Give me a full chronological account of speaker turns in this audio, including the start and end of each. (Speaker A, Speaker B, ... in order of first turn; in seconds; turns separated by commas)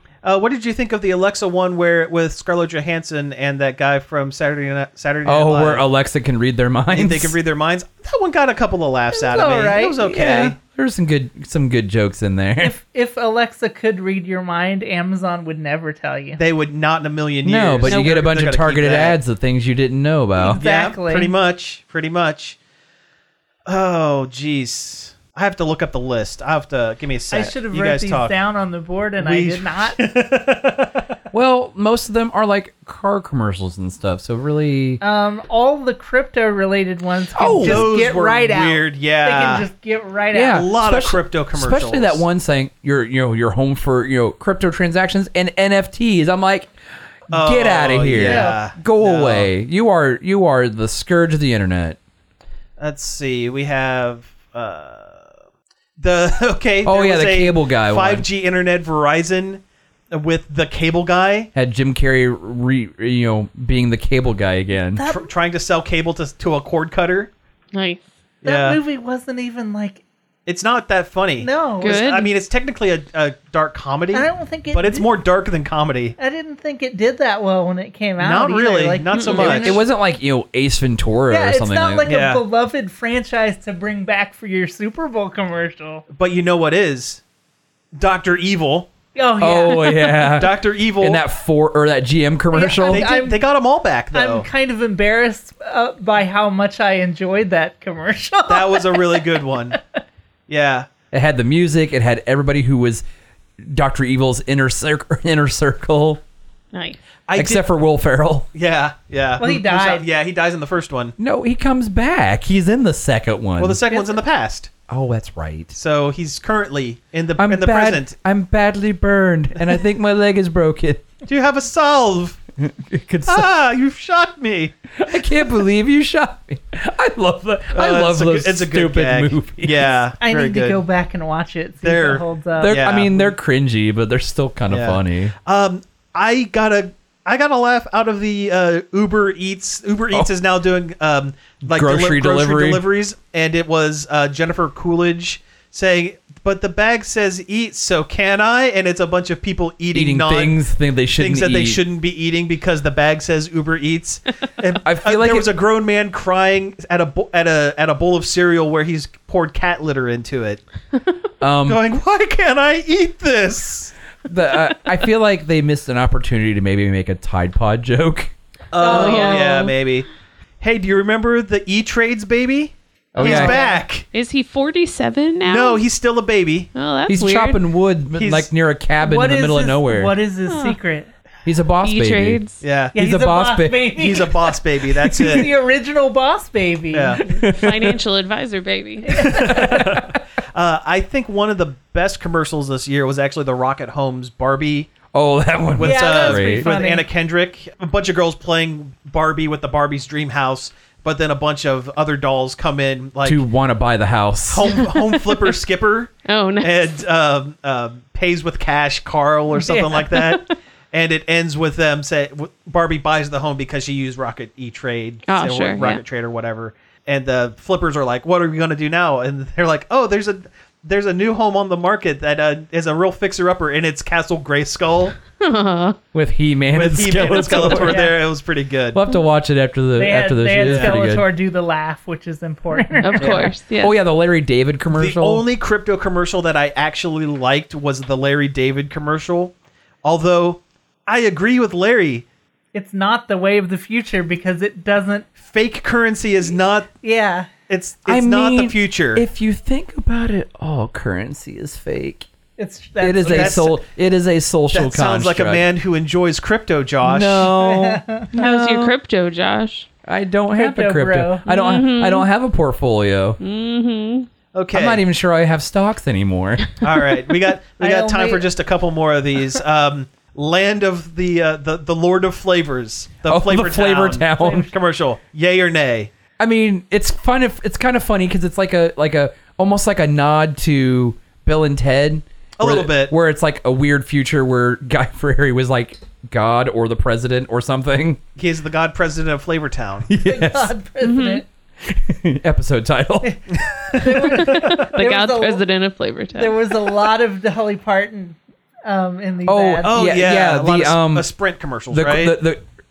Speaker A: 0.2-5.8, Speaker B: 5.2-7.4, Speaker A: 6.9-10.6, Speaker C: 9.1-10.0, Speaker B: 10.0-12.8, Speaker C: 12.6-16.4, Speaker A: 16.4-19.2, Speaker B: 17.4-20.6, Speaker D: 17.9-18.1, Speaker A: 20.4-22.6, Speaker C: 20.6-21.3, Speaker A: 23.7-28.4, Speaker C: 27.3-30.0, Speaker A: 29.2-31.1, Speaker B: 31.3-35.0, Speaker C: 35.0-40.7, Speaker B: 37.4-37.9, Speaker A: 37.5-39.7, Speaker B: 40.3-46.7, Speaker A: 40.5-42.2, Speaker B: 47.3-52.0, Speaker A: 47.3-49.5, Speaker C: 48.2-48.6, Speaker A: 52.8-55.3, Speaker A: 56.0-61.5, Speaker B: 56.8-58.3, Speaker B: 61.5-65.0, Speaker C: 65.0-65.3, Speaker A: 65.0-67.3, Speaker D: 67.7-68.0, Speaker C: 68.4-70.0, Speaker A: 68.4-68.8, Speaker A: 70.5-76.2, Speaker C: 71.4-72.0, Speaker D: 71.8-72.3, Speaker C: 74.1-75.1, Speaker C: 76.2-79.8, Speaker A: 78.2-79.8, Speaker D: 79.1-79.7, Speaker B: 79.4-82.1, Speaker C: 81.3-86.0, Speaker A: 82.0-82.4, Speaker A: 86.1-87.2, Speaker A: 88.0-88.9, Speaker C: 89.1-90.4, Speaker B: 89.4-93.1, Speaker A: 90.3-91.2, Speaker C: 92.5-93.4, Speaker A: 92.9-94.5, Speaker C: 94.1-99.8, Speaker A: 98.5-99.8, Speaker A: 100.5-100.9, Speaker B: 101.1-103.0, Speaker B: 103.6-106.2, Speaker D: 106.7-107.0, Speaker A: 107.3-107.6, Speaker B: 107.4-108.5, Speaker A: 108.5-111.2, Speaker C: 109.4-110.1, Speaker B: 111.2-113.8, Speaker A: 113.6-114.7, Speaker B: 114.9-115.8, Speaker A: 115.7-118.1, Speaker B: 117.4-121.0, Speaker A: 121.2-122.4, Speaker B: 122.6-123.5, Speaker A: 123.3-124.7, Speaker B: 125.0-130.0, Speaker A: 127.7-130.8, Speaker C: 130.2-132.8, Speaker A: 131.8-133.3, Speaker B: 132.6-135.3, Speaker A: 134.7-150.6, Speaker B: 141.6-142.8, Speaker B: 149.9-151.8, Speaker A: 151.1-160.6, Speaker B: 154.8-155.5, Speaker B: 161.4-161.8, Speaker A: 161.7-163.9, Speaker B: 164.3-168.3, Speaker A: 168.7-170.1, Speaker C: 168.8-169.7, Speaker D: 168.8-169.7, Speaker A: 170.6-174.1, Speaker B: 173.1-173.6, Speaker C: 173.2-173.8, Speaker D: 174.1-175.8, Speaker A: 175.4-176.7, Speaker D: 176.7-177.6, Speaker B: 177.1-180.1, Speaker A: 178.1-178.5, Speaker C: 179.0-181.1, Speaker D: 180.5-180.8, Speaker B: 181.4-182.4, Speaker D: 181.8-182.6, Speaker A: 182.6-183.0, Speaker B: 182.9-184.0, Speaker C: 182.9-187.4, Speaker A: 183.9-185.5, Speaker A: 186.9-187.2, Speaker D: 187.3-189.4, Speaker B: 187.3-188.0, Speaker C: 189.1-190.0, Speaker A: 189.1-194.9, Speaker B: 189.4-190.2, Speaker B: 195.1-196.7, Speaker A: 195.7-203.4, Speaker C: 195.8-197.1, Speaker B: 203.2-204.8, Speaker A: 204.5-225.2, Speaker D: 204.7-205.5, Speaker D: 206.3-207.0, Speaker C: 209.5-210.4, Speaker D: 215.3-216.0, Speaker D: 225.4-226.0, Speaker B: 226.1-228.1, Speaker A: 226.7-229.0, Speaker C: 227.2-228.2, Speaker B: 228.9-231.3, Speaker C: 230.0-233.5, Speaker A: 230.6-231.0, Speaker D: 232.8-233.9, Speaker B: 233.2-235.4, Speaker A: 234.9-242.3, Speaker C: 242.7-245.3, Speaker A: 245.4-246.9, Speaker C: 246.9-247.5, Speaker A: 247.7-249.2, Speaker B: 248.1-252.3, Speaker C: 252.6-253.7, Speaker B: 253.0-255.6, Speaker A: 253.3-253.8, Speaker A: 254.7-257.6, Speaker B: 257.0-258.9, Speaker C: 257.6-258.3, Speaker D: 258.4-259.9, Speaker B: 260.1-263.4, Speaker C: 260.6-261.4, Speaker D: 261.4-262.3, Speaker D: 263.4-264.3, Speaker A: 264.5-265.0, Speaker B: 264.7-266.7, Speaker A: 266.8-276.1, Speaker C: 267.8-268.4, Speaker B: 273.3-274.7, Speaker C: 274.3-274.7, Speaker B: 276.4-288.2, Speaker A: 282.6-283.1, Speaker A: 288.4-290.1, Speaker B: 290.1-290.7, Speaker C: 290.2-291.4, Speaker D: 291.0-291.4, Speaker B: 291.8-294.7, Speaker A: 293.5-294.6, Speaker C: 294.0-295.6, Speaker D: 294.2-296.6, Speaker C: 296.4-299.9, Speaker B: 299.4-301.3, Speaker A: 299.8-302.4, Speaker B: 301.9-302.6